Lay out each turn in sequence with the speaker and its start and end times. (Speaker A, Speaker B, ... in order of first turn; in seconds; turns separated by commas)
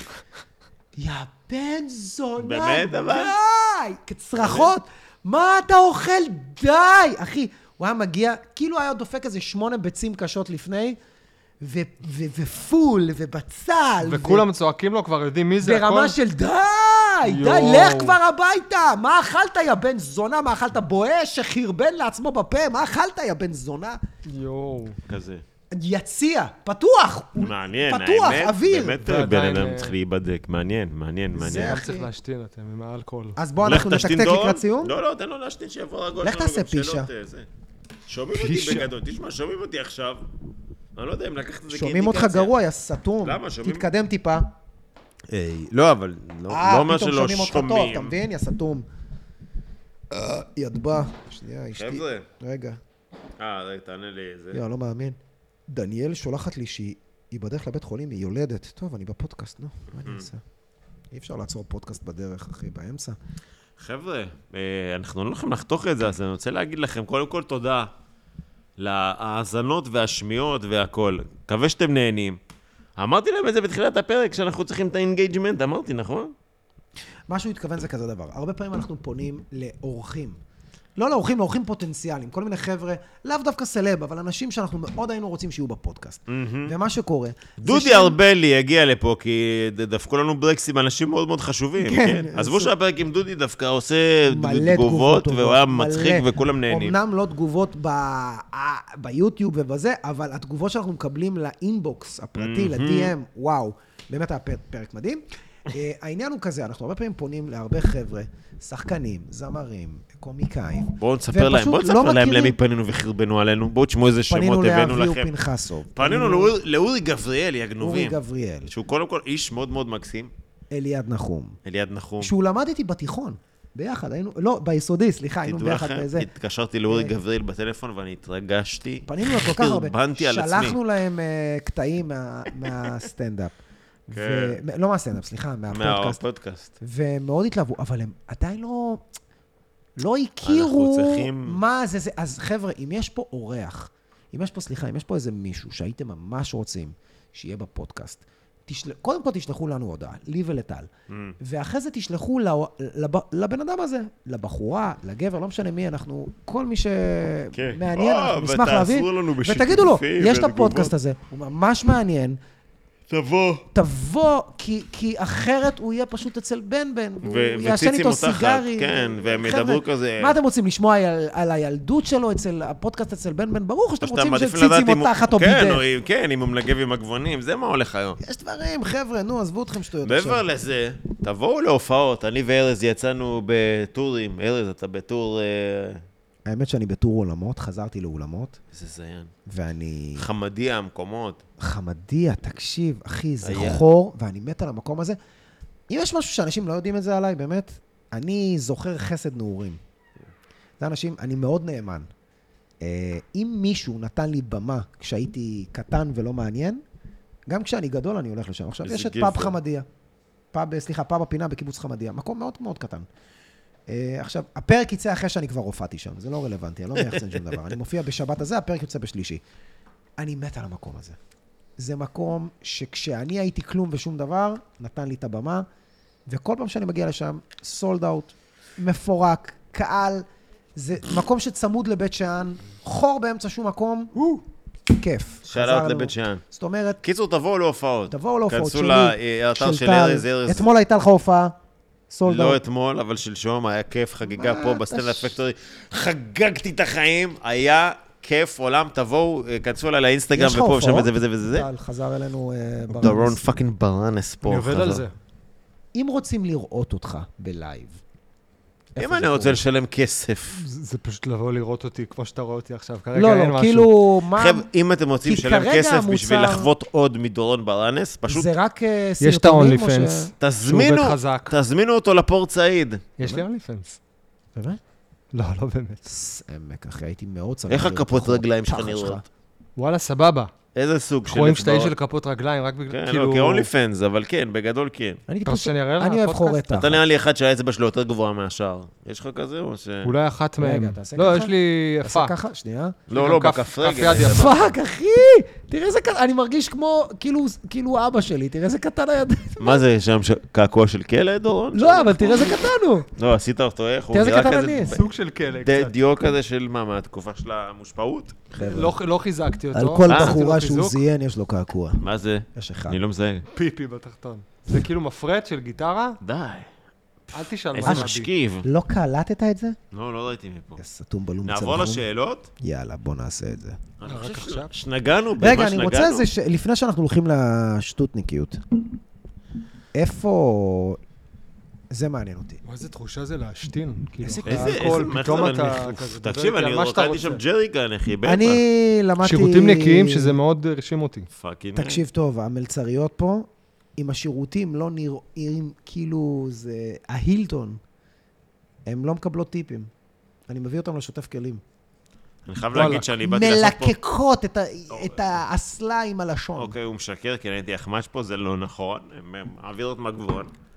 Speaker A: 1.0-11.0, Speaker B: 2.4-3.4, Speaker B: 4.4-4.7, Speaker A: 11.6-14.4, Speaker C: 14.0-16.1, Speaker A: 15.6-24.0, Speaker C: 17.2-18.2, Speaker C: 24.2-25.0, Speaker B: 25.1-25.4, Speaker A: 25.7-29.0, Speaker B: 27.4-31.8, Speaker C: 29.0-29.9, Speaker A: 31.4-32.1, Speaker C: 31.4-33.4, Speaker A: 33.4-34.9, Speaker B: 33.6-37.5, Speaker A: 36.2-37.1, Speaker B: 38.1-40.3, Speaker C: 38.3-38.9, Speaker B: 40.9-42.5, Speaker A: 41.7-44.5, Speaker B: 43.2-43.9, Speaker B: 45.3-48.1, Speaker A: 46.5-48.9, Speaker A: 50.1-52.8, Speaker B: 51.7-52.3, Speaker B: 53.4-54.6, Speaker A: 54.5-60.4, Speaker B: 60.0-60.3, Speaker A: 61.1-63.2, Speaker B: 63.8-67.9, Speaker B: 68.8-72.4, Speaker B: 73.0-76.3, Speaker A: 77.3-80.4, Speaker A: 81.0-88.2, Speaker B: 86.3-86.7, Speaker B: 87.6-96.9, Speaker A: 91.8-92.7, Speaker A: 94.3-112.5, Speaker B: 102.4-103.1, Speaker B: 111.0-115.3, Speaker A: 114.3-116.5, Speaker B: 115.9-118.2, Speaker A: 117.8-118.7, Speaker B: 118.7-120.3, Speaker A: 120.7-121.6, Speaker B: 121.6-122.3, Speaker A: 122.2-126.3, Speaker B: 125.4-130.8, Speaker A: 126.9-127.1, Speaker A: 129.1-133.5, Speaker B: 132.6-132.9, Speaker A: 134.1-136.2, Speaker B: 134.1-134.6, Speaker B: 135.7-136.7, Speaker A: 136.8-139.0, Speaker A: 140.0-150.9, Speaker B: 140.4-141.6, Speaker B: 151.1-151.4, Speaker A: 151.4-162.4, Speaker B: 157.5-160.9, Speaker B: 163.1-163.7, Speaker A: 163.7-175.8, Speaker B: 167.2-170.4, Speaker B: 174.0-178.2, Speaker A: 178.2-180.4, Speaker B: 180.0-186.0, Speaker A: 186.4-188.6, Speaker B: 188.7-189.3, Speaker A: 189.4-190.2, Speaker B: 190.2-191.4, Speaker A: 191.6-195.2, Speaker B: 193.4-193.8, Speaker A: 195.9-199.8, Speaker A: 200.8-202.1, Speaker A: 202.8-206.8, Speaker A: 207.5-209.8, Speaker B: 208.8-209.6, Speaker A: 210.5-213.1, Speaker A: 213.9-219.4, Speaker B: 217.1-217.6, Speaker A: 220.2-221.2, Speaker A: 221.8-225.7, Speaker A: 226.3-234.2, Speaker A: 234.9-237.0, Speaker B: 235.5-236.4, Speaker B: 237.0-240.7, Speaker A: 238.1-241.6, Speaker A: 242.1-242.6, Speaker B: 242.2-251.7, Speaker A: 244.2-245.3, Speaker A: 250.3-253.6, Speaker B: 252.9-255.0, Speaker C: 254.4-255.1, Speaker A: 255.9-258.0, Speaker A: 258.9-259.6, Speaker B: 259.0-260.6, Speaker C: 260.5-263.9, Speaker A: 263.1-264.7, Speaker B: 264.4-268.5, Speaker A: 265.2-266.7, Speaker A: 268.3-270.3, Speaker C: 269.2-271.5, Speaker B: 270.4-273.2, Speaker C: 273.2-274.0, Speaker C: 275.3-276.0, Speaker A: 276.0-279.2, Speaker B: 277.7-279.2, Speaker C: 279.8-280.5, Speaker B: 280.7-281.9, Speaker C: 281.2-283.7, Speaker B: 282.9-285.2, Speaker A: 285.3-287.0, Speaker C: 285.4-286.6, Speaker B: 286.7-290.1, Speaker C: 290.0-292.3, Speaker A: 290.6-293.0, Speaker B: 293.1-294.7, Speaker C: 293.1-294.6, Speaker A: 294.1-299.8, Speaker B: 299.6-302.6, Speaker A: 301.7-303.1, Speaker B: 303.1-305.0, Speaker A: 304.1-305.0, Speaker C: 304.9-306.0, Speaker B: 305.6-308.4, Speaker A: 308.5-308.9, Speaker C: 308.6-311.0, Speaker A: 309.7-312.0, Speaker B: 310.1-310.4, Speaker B: 312.0-313.4, Speaker A: 312.5-313.0, Speaker C: 313.5-316.2, Speaker B: 316.2-316.7, Speaker C: 317.3-318.3, Speaker B: 317.7-318.6, Speaker A: 317.8-318.1, Speaker A: 318.6-319.8, Speaker B: 319.9-320.8, Speaker A: 320.8-322.1, Speaker B: 321.4-322.5, Speaker A: 322.6-323.8, Speaker B: 324.0-326.3, Speaker C: 324.1-324.7, Speaker A: 325.4-328.6, Speaker A: 329.9-331.0, Speaker A: 331.9-332.6, Speaker C: 332.6-337.4, Speaker A: 334.2-335.1, Speaker B: 334.4-338.6, Speaker A: 338.2-340.4, Speaker C: 339.2-341.3, Speaker B: 341.3-342.0, Speaker A: 341.7-347.8, Speaker A: 348.9-349.9, Speaker A: 350.5-351.6, Speaker B: 352.4-353.9, Speaker C: 352.7-353.1, Speaker A: 352.8-356.7, Speaker B: 354.9-355.2, Speaker B: 356.6-360.5